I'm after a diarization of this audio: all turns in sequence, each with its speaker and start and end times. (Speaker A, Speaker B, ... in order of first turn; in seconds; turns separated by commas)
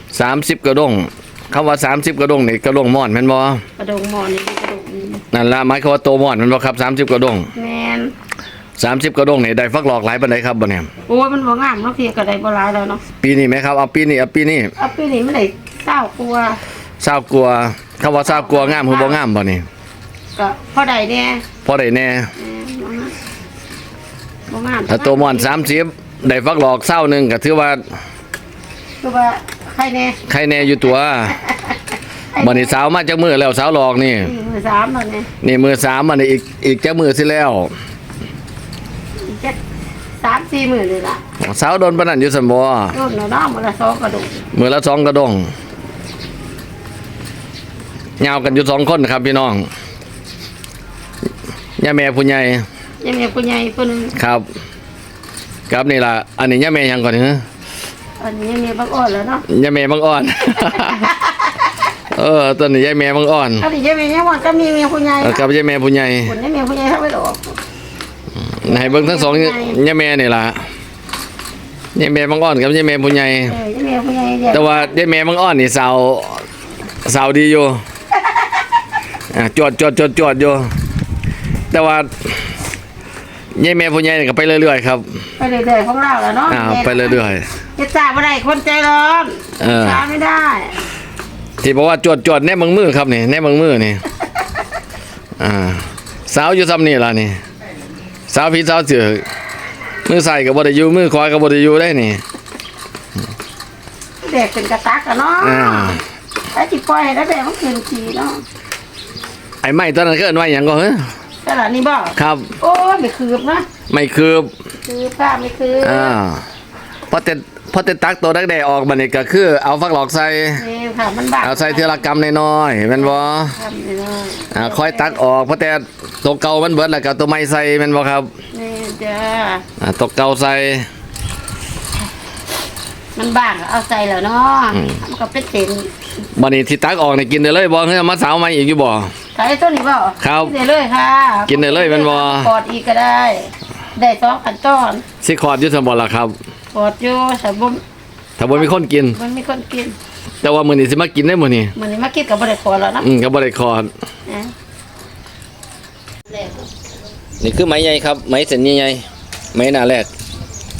Speaker A: 0.1-3.6, Speaker B: 3.8-5.2, Speaker A: 5.3-7.5, Speaker B: 7.5-8.1, Speaker A: 8.8-10.9, Speaker B: 11.1-13.0, Speaker A: 13.2-14.7, Speaker B: 14.8-16.6, Speaker A: 17.0-19.7, Speaker B: 18.2-19.2, Speaker B: 20.4-21.4, Speaker A: 21.6-22.3, Speaker B: 22.4-23.1, Speaker B: 24.5-25.7, Speaker A: 24.9-27.8, Speaker B: 29.0-30.2, Speaker A: 30.3-31.4, Speaker B: 31.4-31.7, Speaker B: 32.3-32.8, Speaker A: 32.4-34.3, Speaker B: 34.2-35.3, Speaker A: 35.4-37.7, Speaker B: 39.2-39.6, Speaker B: 40.2-41.2, Speaker A: 41.4-43.0, Speaker B: 42.9-44.4, Speaker A: 44.5-45.5, Speaker A: 48.2-49.7, Speaker A: 51.8-52.7, Speaker B: 53.0-54.1, Speaker A: 54.2-54.5, Speaker A: 55.7-57.4, Speaker B: 58.2-59.5, Speaker A: 59.5-61.1, Speaker B: 60.7-61.5, Speaker A: 62.2-63.7, Speaker B: 63.6-65.5, Speaker A: 65.2-66.3, Speaker B: 66.2-67.6, Speaker A: 68.4-70.7, Speaker B: 68.6-69.8, Speaker A: 72.0-73.6, Speaker B: 73.5-75.0, Speaker A: 74.5-76.5, Speaker A: 77.0-77.8, Speaker A: 79.3-80.7, Speaker A: 81.7-82.4, Speaker A: 83.6-85.2, Speaker B: 85.4-90.8, Speaker A: 86.5-87.4, Speaker A: 89.6-90.0, Speaker A: 91.6-94.0, Speaker A: 95.4-97.4, Speaker A: 98.3-99.3, Speaker A: 100.1-102.2, Speaker B: 104.2-106.0, Speaker A: 105.4-106.0, Speaker B: 106.5-108.4, Speaker A: 109.6-111.1, Speaker B: 111.4-113.7, Speaker A: 112.2-112.5, Speaker A: 113.9-114.5, Speaker B: 114.9-116.2, Speaker A: 115.8-116.4, Speaker A: 117.1-120.6, Speaker B: 120.6-122.0, Speaker A: 121.4-123.5, Speaker B: 123.0-125.2, Speaker A: 124.5-128.3, Speaker B: 128.5-129.7, Speaker A: 129.8-130.9, Speaker B: 133.2-135.9, Speaker A: 136.4-139.1, Speaker B: 139.3-145.0, Speaker A: 140.2-140.5, Speaker A: 141.5-142.5, Speaker A: 145.2-146.4, Speaker B: 146.7-147.8, Speaker A: 148.4-149.2, Speaker B: 148.5-150.0, Speaker A: 150.4-151.7, Speaker B: 151.8-153.1, Speaker A: 153.0-153.9, Speaker B: 154.3-154.5, Speaker B: 156.3-156.7, Speaker A: 157.4-160.1